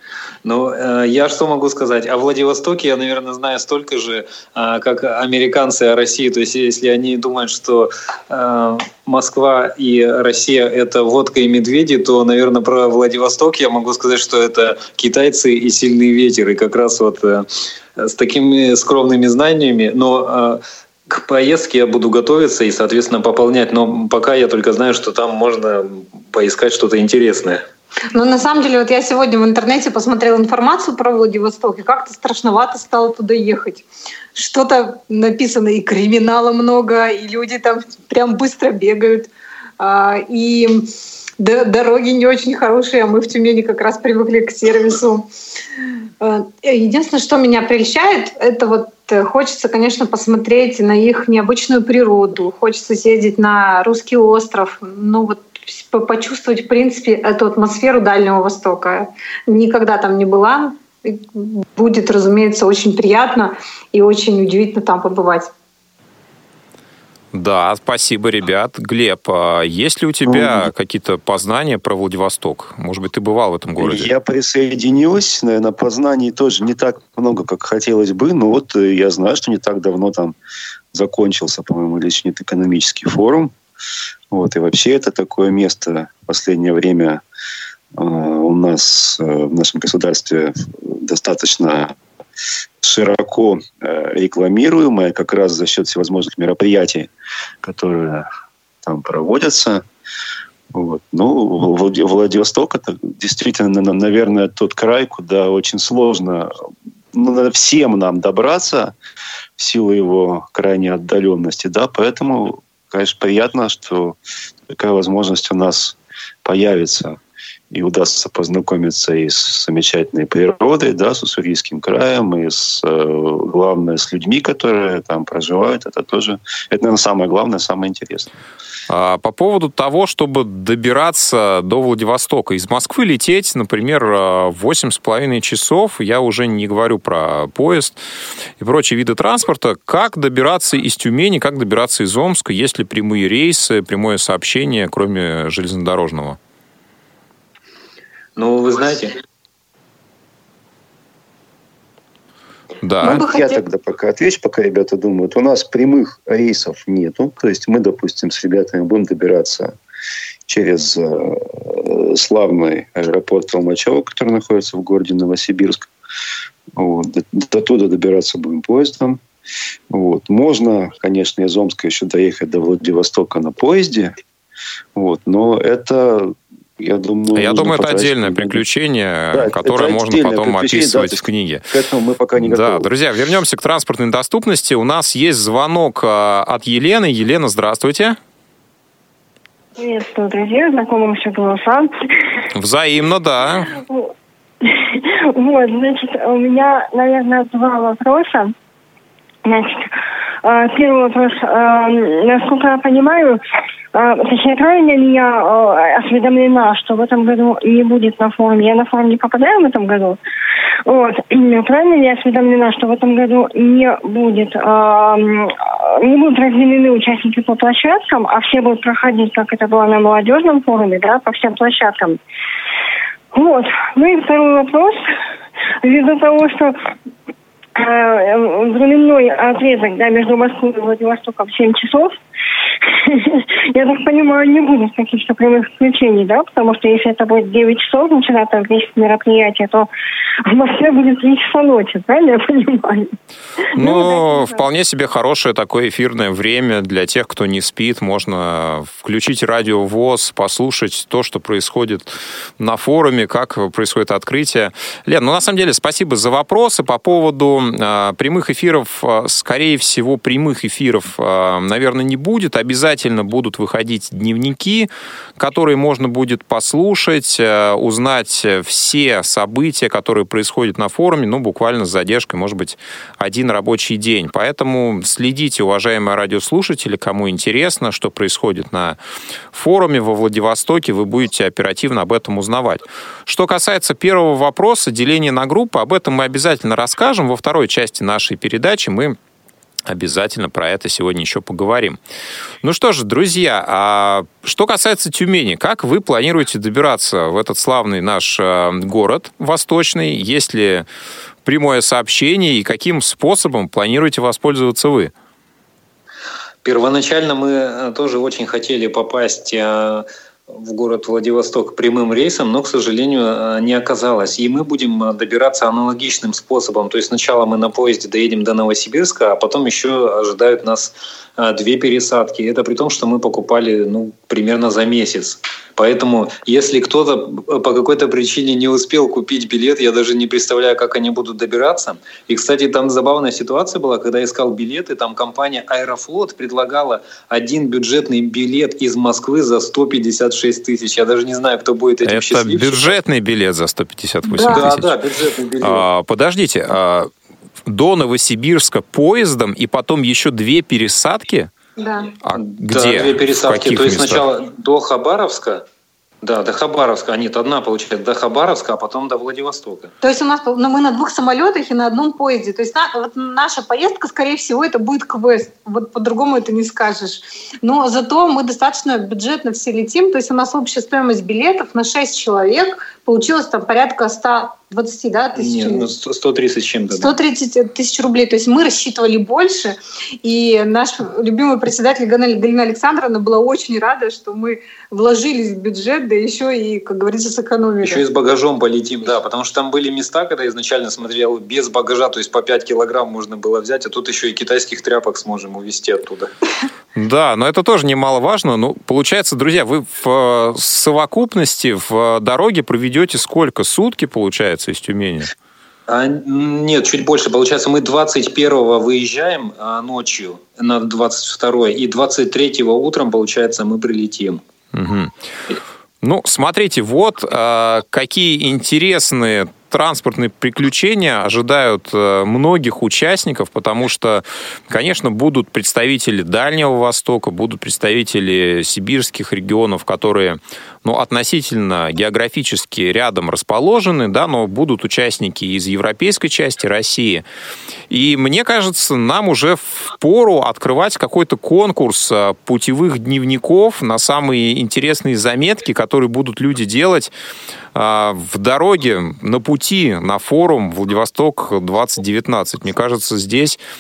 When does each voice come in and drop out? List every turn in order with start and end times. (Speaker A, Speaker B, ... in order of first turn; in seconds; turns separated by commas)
Speaker A: 0.4-27.6, Speaker B: 28.1-45.3, Speaker B: 46.2-65.5, Speaker C: 67.3-74.1, Speaker D: 70.2-70.7, Speaker D: 73.8-80.4, Speaker D: 80.9-83.5, Speaker D: 84.3-87.2, Speaker D: 88.0-92.0, Speaker D: 92.8-97.1, Speaker D: 97.6-98.3, Speaker D: 98.8-99.8, Speaker D: 100.7-106.5, Speaker D: 107.1-109.0, Speaker D: 109.6-114.2, Speaker D: 114.7-117.2, Speaker D: 117.7-128.3, Speaker C: 128.9-138.0, Speaker C: 138.6-146.4, Speaker A: 148.4-149.2, Speaker C: 152.8-153.2, Speaker B: 153.0-153.6, Speaker D: 153.1-159.8, Speaker D: 160.5-165.9, Speaker D: 166.8-169.2, Speaker D: 169.9-174.1, Speaker D: 174.9-178.6, Speaker C: 177.3-181.7, Speaker D: 179.3-182.9, Speaker C: 182.4-188.2, Speaker E: 189.8-191.9, Speaker C: 192.5-193.7, Speaker E: 194.6-198.5, Speaker E: 199.5-203.4, Speaker E: 203.9-210.2, Speaker E: 210.9-222.2, Speaker E: 223.3-225.0, Speaker E: 225.8-226.8, Speaker E: 227.8-232.2, Speaker E: 232.8-239.9, Speaker E: 240.5-243.1, Speaker E: 243.7-244.6, Speaker C: 243.8-279.0, Speaker C: 279.5-289.2, Speaker C: 289.9-292.0, Speaker C: 292.6-300.9, Speaker C: 301.4-305.1, Speaker A: 306.6-343.0, Speaker C: 342.1-345.0, Speaker B: 344.3-344.7, Speaker A: 344.5-345.9, Speaker C: 345.6-347.1, Speaker C: 347.7-351.5, Speaker B: 351.8-352.1, Speaker C: 352.2-354.2, Speaker A: 352.3-355.6, Speaker A: 356.2-359.9, Speaker B: 360.0-375.9, Speaker A: 375.4-377.2, Speaker B: 377.0-388.0, Speaker A: 387.8-396.3, Speaker C: 396.9-405.3, Speaker A: 405.9-414.4, Speaker C: 414.7-415.1, Speaker C: 416.0-437.2, Speaker C: 437.9-447.1, Speaker C: 447.8-453.6